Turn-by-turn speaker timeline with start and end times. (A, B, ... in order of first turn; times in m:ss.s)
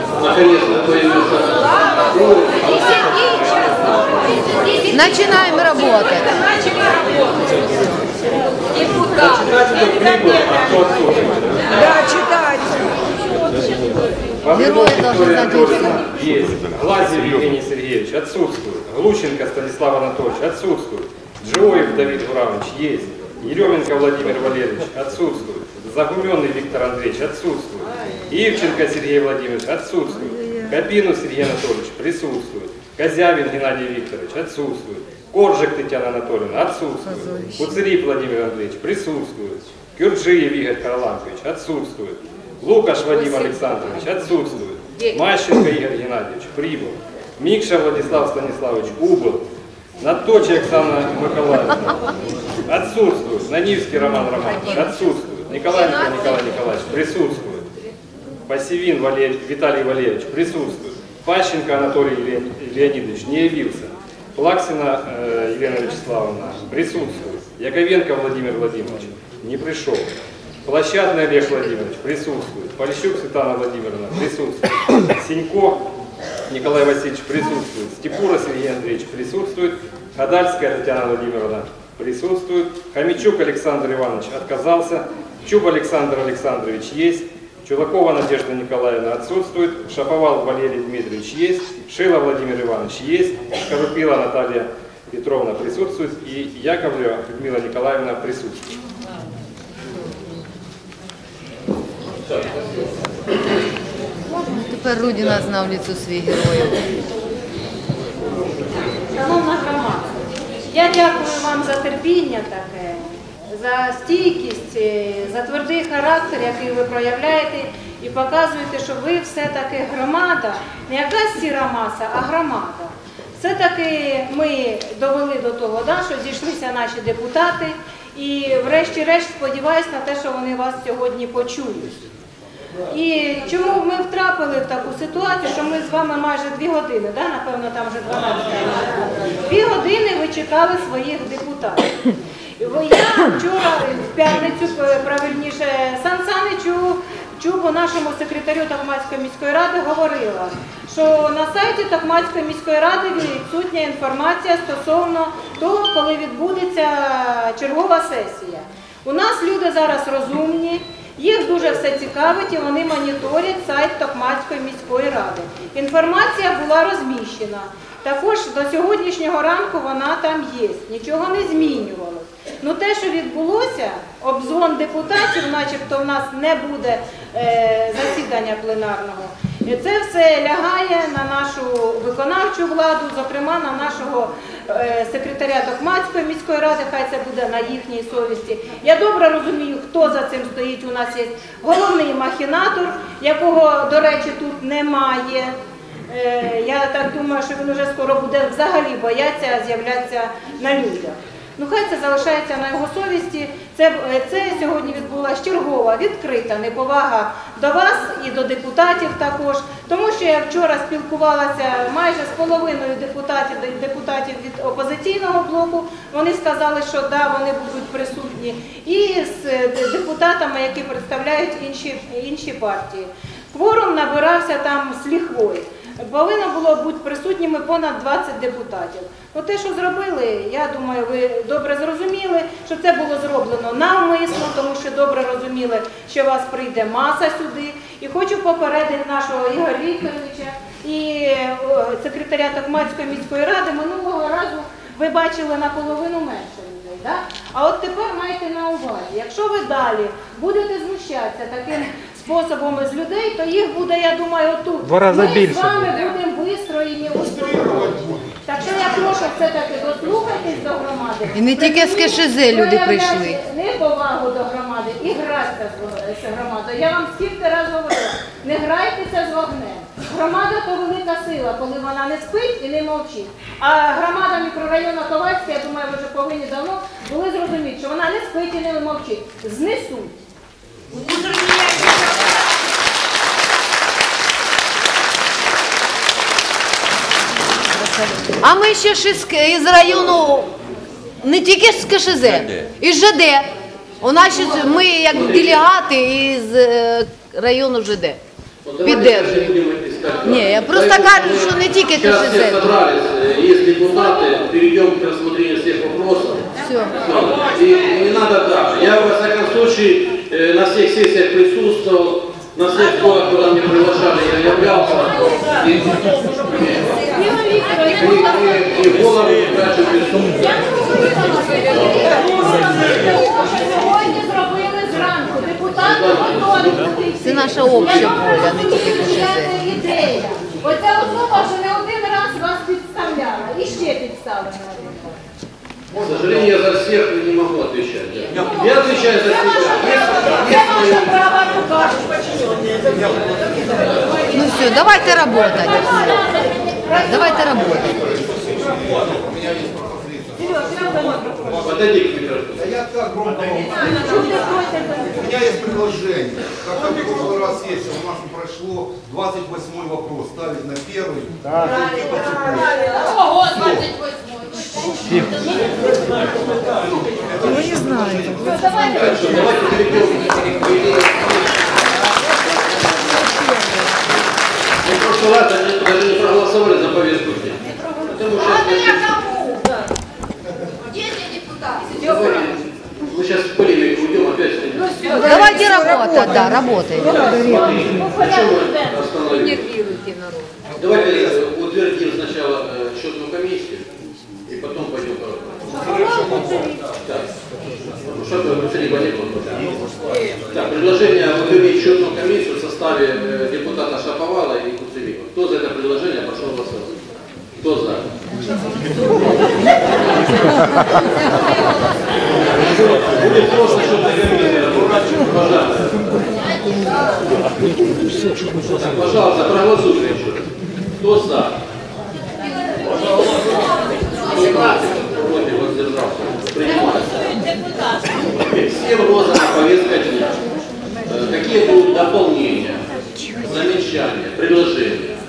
0:00.2-0:04.0 A
0:04.8-0:06.5 B
0:06.5-0:07.6 C
0:09.2-0:11.9 D
0:09.4-0:09.7 A
0:12.1-0:12.6 C
0:14.4-0:49.4 D
0:14.5-0:16.1 B
0:43.2-0:43.5 B
0:50.0-0:52.0 D
0:52.7-0:57.7 D
0:55.8-0:56.2 B
0:58.5-1:10.1 D
1:10.7-1:15.9 D
1:16.5-1:38.7 D
1:42.3-1:42.7 A
1:44.3-1:46.9 B
1:49.1-1:50.2 C
1:50.7-2:12.0 C
2:12.9-2:22.0 C
2:22.6-3:15.6 C
3:16.1-4:17.9 C
4:14.9-4:15.8 D
4:17.3-4:18.4 E
4:18.5-4:40.1 C
4:21.4-4:23.4 B
4:41.1-4:42.2 C
4:48.2-4:50.5 B
4:51.2-4:58.2 B
4:55.1-4:55.7 A
4:58.6-5:06.5 A
4:58.8-4:59.5 B
5:00.3-5:02.7 B
5:06.6-5:07.0 B
5:07.0-5:17.1 A
5:17.1-5:18.6 C
5:17.9-5:20.6 A
5:20.8-5:35.2 C
5:25.8-5:26.9 A
5:27.2-5:29.6 B
5:27.7-5:28.1 A
5:36.0-5:41.3 A
5:39.6-5:42.4 C
5:42.9-5:43.5 E
5:43.8-5:44.2 A
5:44.3-5:46.3 B
5:45.7-5:47.4 C
5:46.9-5:48.1 B
5:47.6-5:50.8 E
5:50.4-5:51.6 C
5:51.6-5:52.8 A
5:51.6-5:51.9 E
5:52.6-5:54.0 E
5:53.8-5:55.3 C
5:55.2-6:02.6 E
6:01.7-6:03.5 C
6:03.6-6:03.9 E
6:05.4-6:05.9 E
6:06.6-6:09.1 E
6:08.8-6:11.6 A
6:14.8-6:19.5 A
6:21.8-6:25.7 A
6:24.8-6:29.1 C
6:25.2-6:27.8 B
6:26.9-6:29.8 A
6:29.9-6:30.5 B
6:30.8-6:33.9 A
6:34.5-6:36.2 A
6:35.7-6:36.8 C
6:37.0-6:37.3 A
6:38.0-6:39.8 A
6:40.5-6:47.0 A
6:47.6-6:48.1 A
6:52.5-6:56.3 A
6:58.6-7:00.5 A
7:01.0-7:01.6 A
7:03.1-7:07.2 A
7:08.2-7:10.4 A
7:11.0-7:12.9 A
7:13.4-7:15.2 A